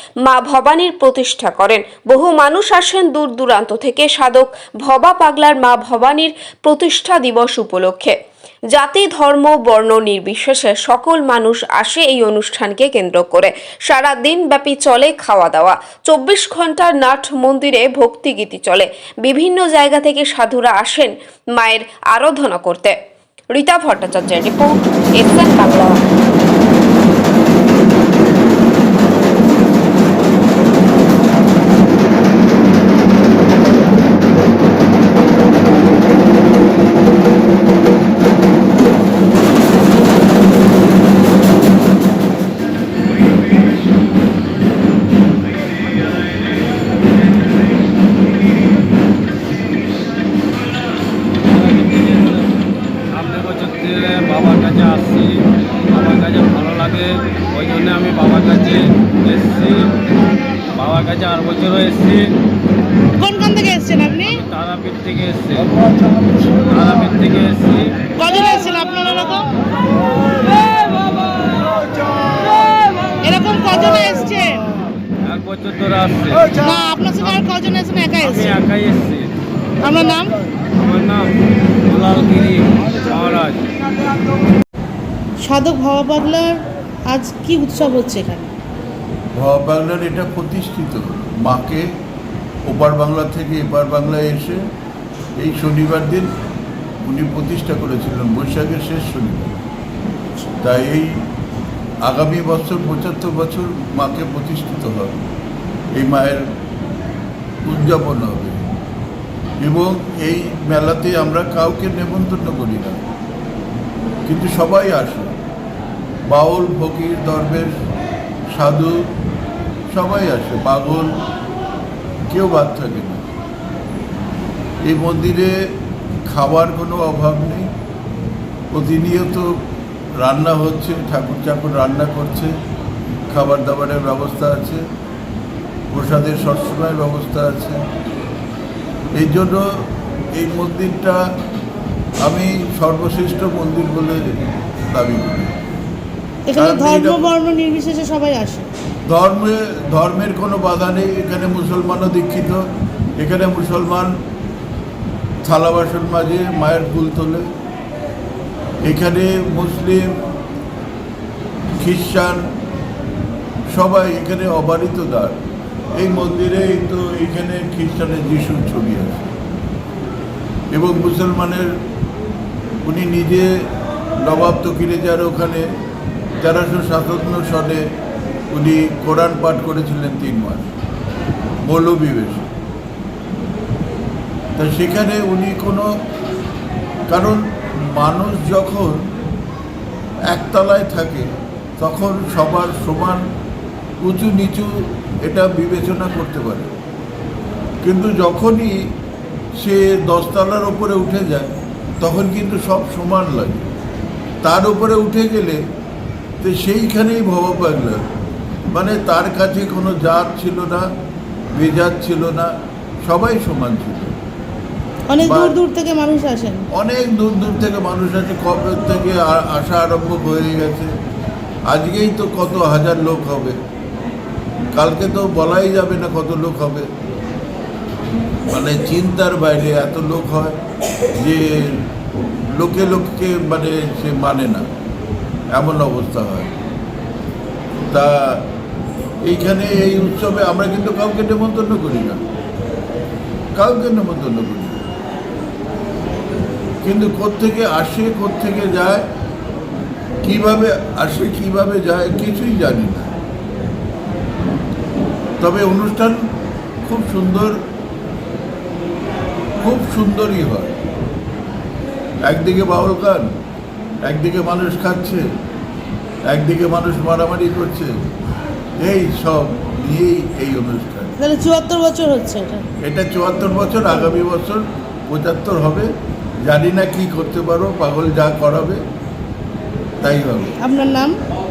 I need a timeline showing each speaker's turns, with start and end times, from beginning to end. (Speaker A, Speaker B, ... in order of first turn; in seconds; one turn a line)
Speaker A: 0.2-8.1
Speaker A: 8.7-22.9
Speaker A: 23.5-26.0
Speaker B: 51.5-52.5
Speaker B: 53.1-60.0
Speaker B: 60.7-62.3
Speaker C: 63.2-64.4
Speaker B: 64.3-65.7
Speaker B: 66.6-67.9
Speaker C: 68.2-69.5
Speaker C: 73.2-74.7
Speaker B: 75.2-76.6
Speaker C: 76.6-78.6
Speaker B: 78.2-79.3
Speaker C: 79.8-80.3
Speaker B: 80.7-81.3
Speaker B: 81.8-83.7
Speaker C: 85.4-86.6
Speaker C: 87.1-88.5
Speaker D: 89.3-91.9
Speaker D: 92.7-94.6
Speaker D: 95.4-96.3
Speaker D: 97.0-99.5
Speaker D: 100.6-101.1
Speaker D: 102.1-105.3
Speaker D: 106.0-106.4
Speaker D: 107.7-108.7
Speaker D: 109.6-113.0
Speaker D: 114.2-115.3
Speaker D: 116.3-117.8
Speaker D: 118.5-119.0
Speaker D: 119.9-121.2
Speaker D: 122.3-123.3
Speaker D: 124.8-125.5
Speaker D: 126.3-127.7
Speaker D: 128.7-129.5
Speaker D: 130.2-132.5
Speaker D: 133.3-134.8
Speaker D: 135.9-137.8
Speaker D: 139.2-139.6
Speaker D: 140.4-141.2
Speaker D: 142.2-144.2
Speaker D: 144.9-145.5
Speaker C: 146.5-148.7
Speaker D: 146.6-147.3
Speaker D: 149.1-152.6
Speaker D: 153.2-154.1
Speaker D: 155.4-157.5
Speaker D: 158.8-160.1
Speaker D: 161.8-162.5
Speaker D: 163.7-165.4
Speaker D: 166.0-169.3
Speaker D: 170.7-171.7
Speaker D: 172.8-173.5
Speaker D: 174.2-175.7
Speaker D: 176.4-177.8
Speaker D: 178.5-180.7
Speaker D: 181.7-182.5
Speaker D: 184.6-185.9
Speaker D: 187.1-189.1
Speaker D: 190.3-193.2
Speaker D: 194.0-194.7
Speaker D: 195.2-196.7
Speaker D: 197.8-198.8
Speaker D: 199.6-203.7
Speaker D: 204.4-205.6
Speaker D: 206.4-208.1
Speaker D: 208.7-210.9
Speaker D: 211.6-212.5
Speaker D: 213.1-214.2
Speaker C: 215.1-216.6
Speaker D: 215.2-215.6
Speaker D: 216.8-220.9
Speaker D: 221.7-223.6
Speaker D: 224.7-226.9
Speaker D: 228.5-230.6
Speaker D: 231.2-231.8
Speaker D: 232.6-234.7
Speaker D: 235.6-236.5
Speaker D: 237.9-238.4
Speaker D: 239.2-242.2
Speaker D: 243.6-244.8
Speaker D: 246.8-249.1
Speaker D: 250.2-253.1
Speaker D: 255.4-256.2
Speaker D: 256.9-257.6
Speaker D: 259.6-260.8
Speaker D: 262.2-263.3
Speaker D: 264.0-265.2
Speaker D: 266.3-267.9
Speaker D: 268.8-271.1
Speaker C: 271.2-272.6
Speaker D: 272.8-275.9
Speaker D: 276.5-278.8
Speaker D: 280.0-280.6
Speaker C: 280.6-281.2